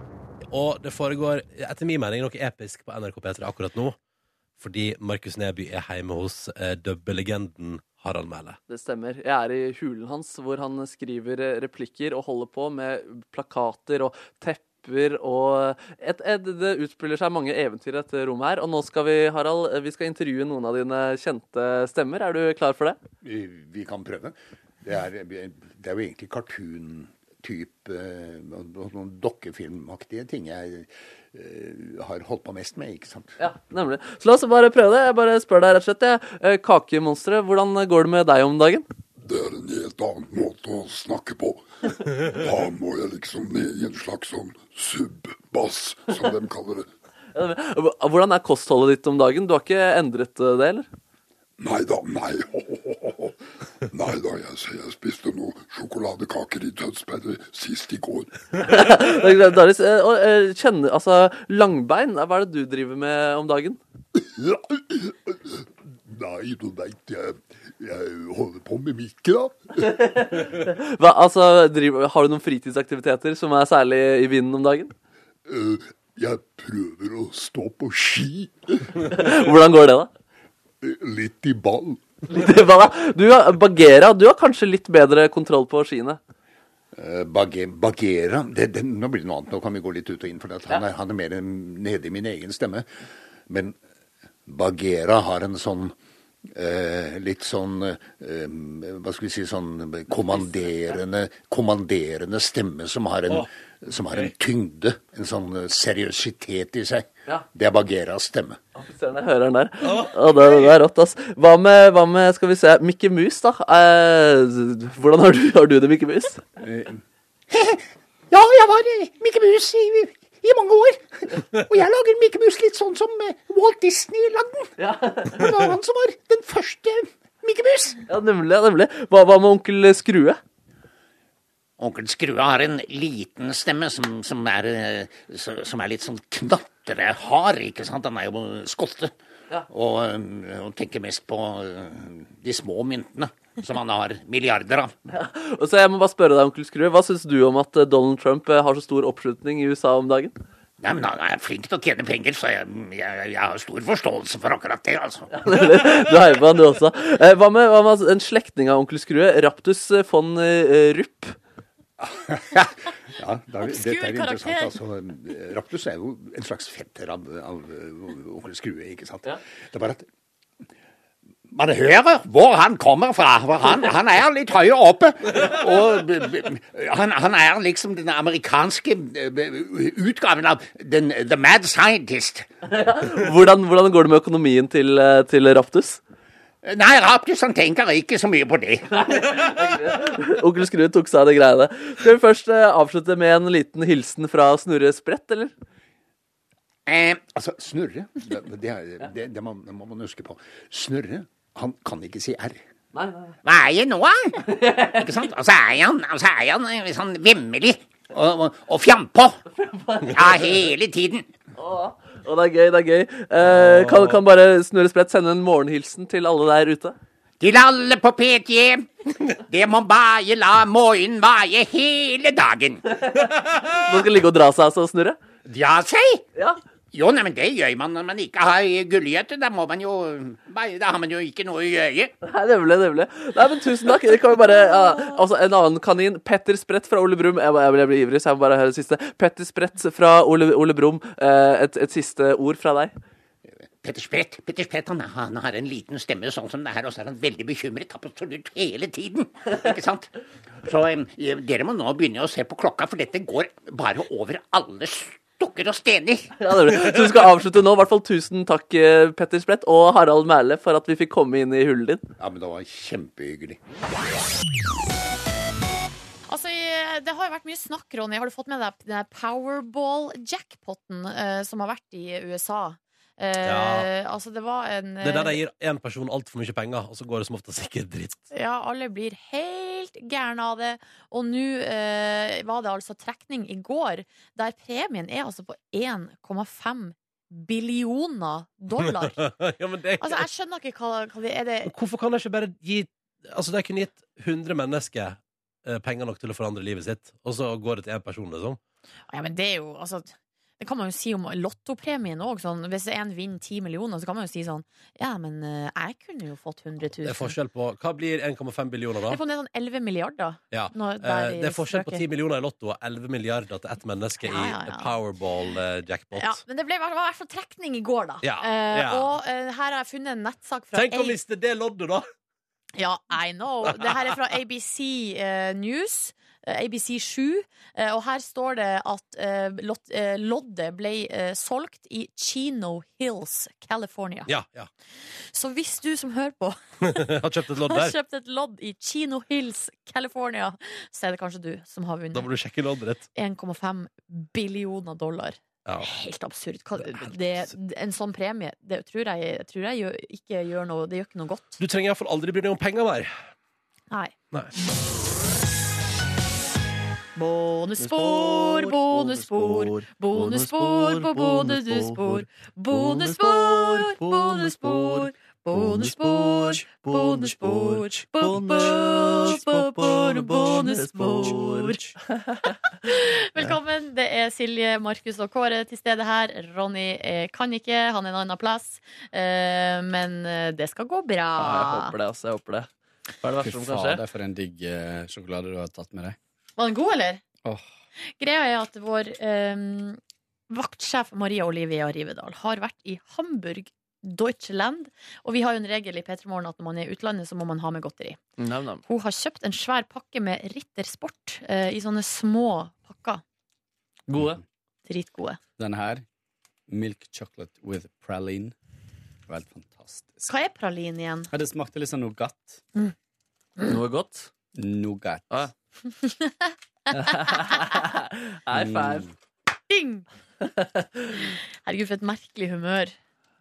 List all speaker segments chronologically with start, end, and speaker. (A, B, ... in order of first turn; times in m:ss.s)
0:00.5-0:04.0 A
0:04.6-0:08.6 A
0:08.7-0:23.0 B
0:23.2-0:33.3 C
0:33.4-0:38.8 B
0:39.2-0:46.9 D
0:47.3-0:50.9 B
0:51.6-0:53.4 D
0:53.9-0:58.3 D
0:58.6-1:03.8 B
1:06.0-1:09.8 C
1:09.8-1:14.9 B
1:15.5-1:18.8 C
1:19.1-1:20.1 B
1:20.8-1:22.0 C
1:22.3-1:26.2 B
1:26.9-1:32.9 C
1:33.5-1:33.8 C
1:34.5-1:36.0 C
1:36.5-1:48.6 C
1:40.3-1:40.9 B
1:48.8-1:56.4 B
1:49.8-1:50.7 A
1:56.6-1:57.0 C
1:57.5-2:04.7 E
2:04.8-2:05.6 B
2:05.2-2:08.0 E
2:08.1-2:10.4 B
2:11.8-2:19.1 E
2:19.7-2:24.9 E
2:25.1-2:30.4 B
2:30.8-2:35.3 E
2:35.3-2:41.4 B
2:42.0-2:50.0 C
2:43.6-2:44.8 F
2:51.6-2:55.3 E
2:55.2-2:56.9 C
2:56.9-2:59.1 E
2:59.1-3:00.0 C
3:00.0-3:02.5 E
3:02.7-3:06.0 B
3:06.6-3:08.9 E
3:08.9-3:15.5 B
3:16.9-3:17.2 E
3:17.2-3:22.6 C
3:22.9-3:23.4 B
3:23.4-3:29.4 E
3:24.4-3:25.2 B
3:29.5-3:30.6 B
3:30.1-3:31.3 E
3:31.6-3:37.0 B
3:33.4-3:34.2 A
3:37.4-3:42.8 E
3:42.9-3:45.2 B
3:45.4-3:46.2 E
3:46.9-3:52.1 E
3:52.2-4:02.9 B
4:03.8-4:10.1 E
4:10.6-4:16.3 E
4:16.4-4:22.0 B
4:22.2-4:23.6 C
4:26.3-4:35.4 F
4:33.4-4:33.9 A
4:35.0-4:38.3 A
4:38.3-4:49.2 F
4:48.8-4:50.3 A
4:50.0-4:51.7 F
4:51.6-4:58.6 A
4:59.1-5:07.4 F
5:07.0-5:09.2 A
5:09.1-5:12.0 F
5:10.5-5:16.4 A
5:14.2-5:14.9 F
5:16.2-5:21.2 F
5:18.2-5:19.2 A
5:20.7-5:22.0 A
5:22.8-5:34.3 F
5:23.6-5:24.1 A
5:34.3-5:34.7 A
5:35.3-5:37.1 F
5:36.8-5:38.0 A
5:37.6-5:42.3 F
5:42.1-5:43.1 A
5:43.2-5:51.6 F
5:51.6-5:53.1 A
5:57.2-6:11.9 F
5:57.8-6:12.7 B
6:12.8-6:21.9 F
6:21.4-6:22.7 B
6:23.2-6:24.0 B
6:23.4-6:26.2 G
6:26.6-6:27.2 F
6:28.2-6:30.0 F
6:30.5-6:38.2 F
6:38.4-6:38.8 B
6:38.9-6:43.2 F
6:44.1-6:44.4 B
6:44.9-6:45.4 F
6:45.6-6:46.0 G
6:46.7-6:48.6 G
6:49.3-6:50.3 G
6:50.3-6:51.3 F
6:51.3-6:52.6 G
6:53.6-6:54.3 B
6:54.6-6:55.5 G
6:56.0-6:57.8 F
6:56.9-6:59.1 B
6:58.5-6:59.1 G
6:59.7-7:00.1 F
7:00.4-7:01.3 B
7:01.1-7:02.9 F